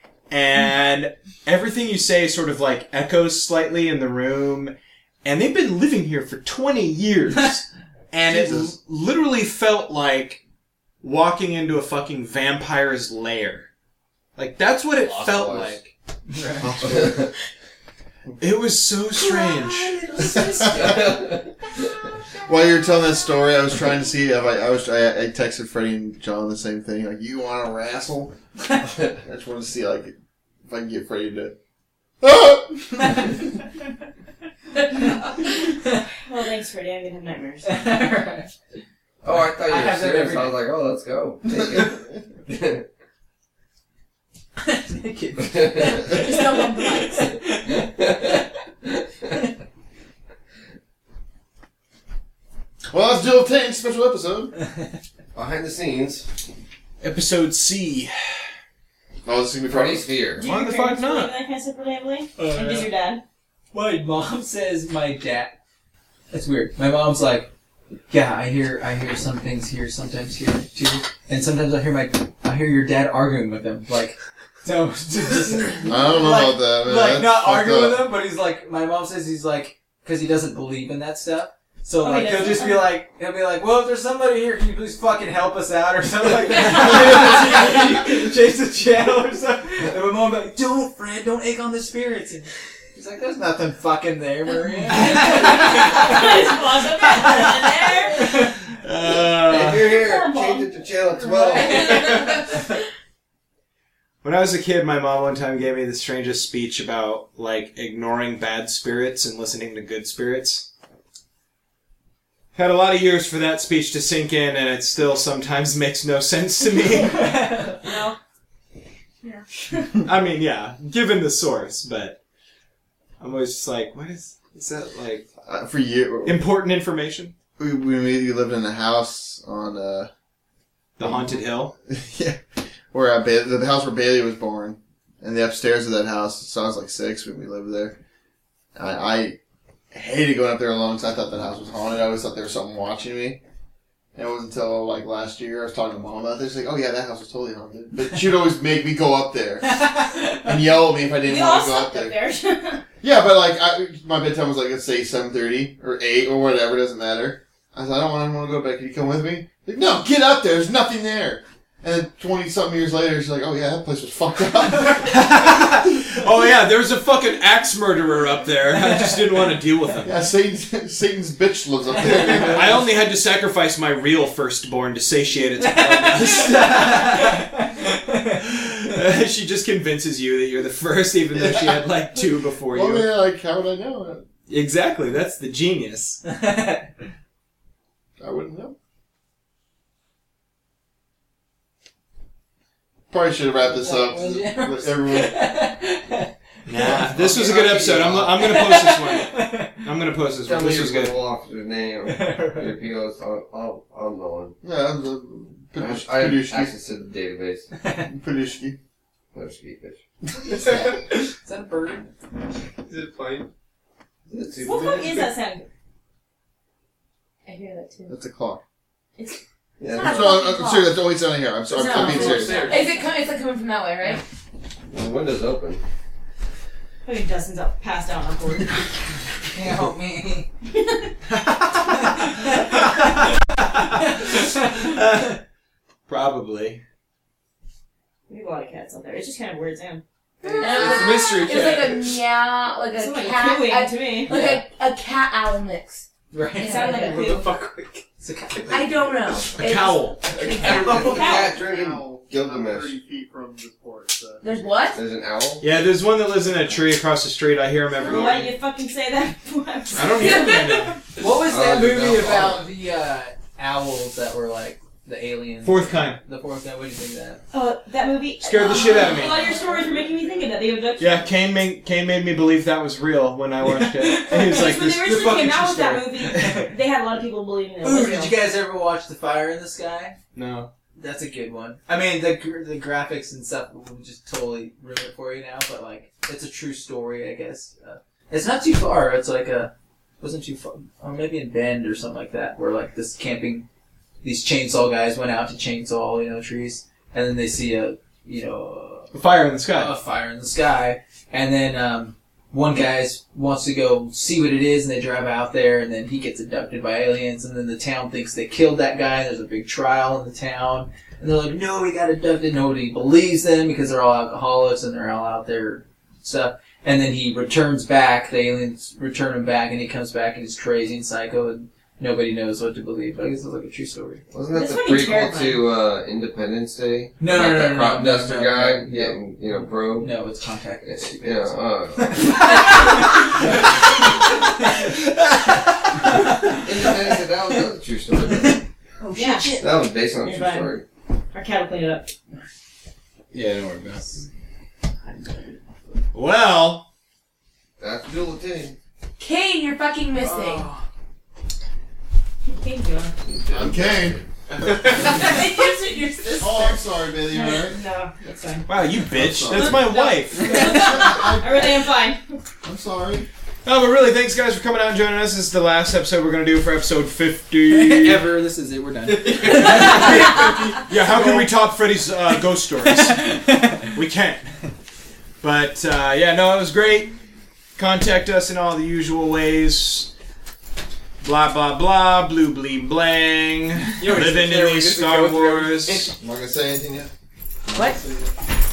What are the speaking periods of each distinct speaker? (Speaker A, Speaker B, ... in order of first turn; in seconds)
Speaker A: 0.3-10.4, 11.0-13.7, 14.3-15.9, 18.4-20.1, 57.0-58.4, 60.4-61.3, 95.1-95.4, 98.7-100.0, 102.1-102.5, 104.2-110.7, 112.5-117.6, 120.0-122.2, 123.2-125.3, 126.2-127.3, 131.0-131.7, 164.9-170.2, 172.3-183.1, 184.5-186.2, 196.7-201.3, 231.3-235.4, 236.1-236.8, 240.6-242.2, 249.5-250.3, 255.6-258.6, 259.9-261.2, 265.6-266.2, 268.4-269.4, 271.0-275.2, 280.3-280.7, 299.1-299.9, 334.7-336.2, 343.3-344.2, 346.1-346.9, 354.6-355.2, 358.6-360.9, 363.6-368.3, 369.2-374.5, 375.4-377.1, 377.8-380.1, 381.2-386.1
Speaker B: 8.2-8.7, 16.6-17.2, 22.4-28.3, 29.1-30.1, 30.7-31.5, 32.2-33.4, 52.9-54.5, 59.2-60.1, 75.8-78.0, 125.4-126.5, 127.6-130.1, 131.0-138.0, 138.8-139.4, 139.9-143.4, 144.2-152.1, 153.0-165.2, 170.0-172.8, 181.3-181.9, 182.6-184.2, 188.2-188.8, 193.1-195.4, 204.6-206.7, 208.1-208.8, 218.1-218.6, 220.0-222.7, 250.9-254.8, 353.5-354.2, 356.4-357.8, 359.1-359.9, 360.5-361.8, 362.6-363.3, 385.9-387.1, 387.6-388.3
Speaker C: 15.0-15.8, 17.0-17.2, 20.7-21.5, 39.2-42.8, 45.4-46.1, 47.8-48.9, 55.3-56.2, 59.7-60.5, 99.2-102.1, 196.9-198.6, 200.4-204.5, 205.8-207.7, 209.3-210.0, 212.9-213.4, 214.3-215.3, 219.8-220.5, 221.9-222.8, 224.9-225.8, 250.4-252.9, 254.9-255.6, 261.4-262.6, 324.3-330.2, 330.8-332.6, 336.5-338.6, 339.6-340.8, 347.8-348.8, 353.3-354.2
Speaker D: 16.3-16.7, 19.1-23.2, 37.6-38.5, 39.3-40.6, 44.6-48.5, 62.4-62.9, 63.7-65.5, 66.3-67.5, 68.1-98.6, 101.5-102.3, 117.1-117.8, 149.6-150.6, 168.8-169.4, 171.9-172.8, 175.6-178.5, 186.2-186.9, 193.6-197.3, 198.3-199.8, 202.1-202.7, 207.8-208.1, 210.4-212.1, 222.0-223.0, 229.5-230.5, 231.9-233.2, 233.9-235.0, 240.4-241.0, 244.3-244.6, 246.3-249.3, 260.2-260.6, 261.2-267.4, 268.7-270.6, 273.6-276.7, 277.8-280.2, 280.9-293.7, 294.2-299.1, 299.6-324.2, 327.2-329.1, 329.9-333.7, 334.5-334.9, 336.0-336.9, 350.2-350.8, 367.7-371.5, 372.8-373.9, 384.0-385.8
Speaker E: 36.2-37.7, 60.4-63.2, 82.0-82.9, 95.0-98.4, 99.7-100.7, 101.6-102.2, 117.8-118.2, 119.2-119.8, 151.2-152.8, 214.6-215.7, 217.4-218.1, 227.0-229.0, 230.8-231.1, 238.3-240.0, 242.9-244.4, 246.6-247.4, 251.1-251.5, 257.9-260.7, 267.5-271.2, 274.3-278.3, 324.5-325.6, 339.0-339.7, 340.2-340.8, 341.3-342.1, 352.5-353.1, 357.3-358.7, 359.5-362.2, 369.5-370.1
Speaker F: 45.9-47.4, 219.9-220.9, 221.7-224.2, 240.6-246.1, 246.6-247.4, 248.7-251.3, 254.4-255.0, 339.1-339.7, 349.2-350.7, 354.9-356.8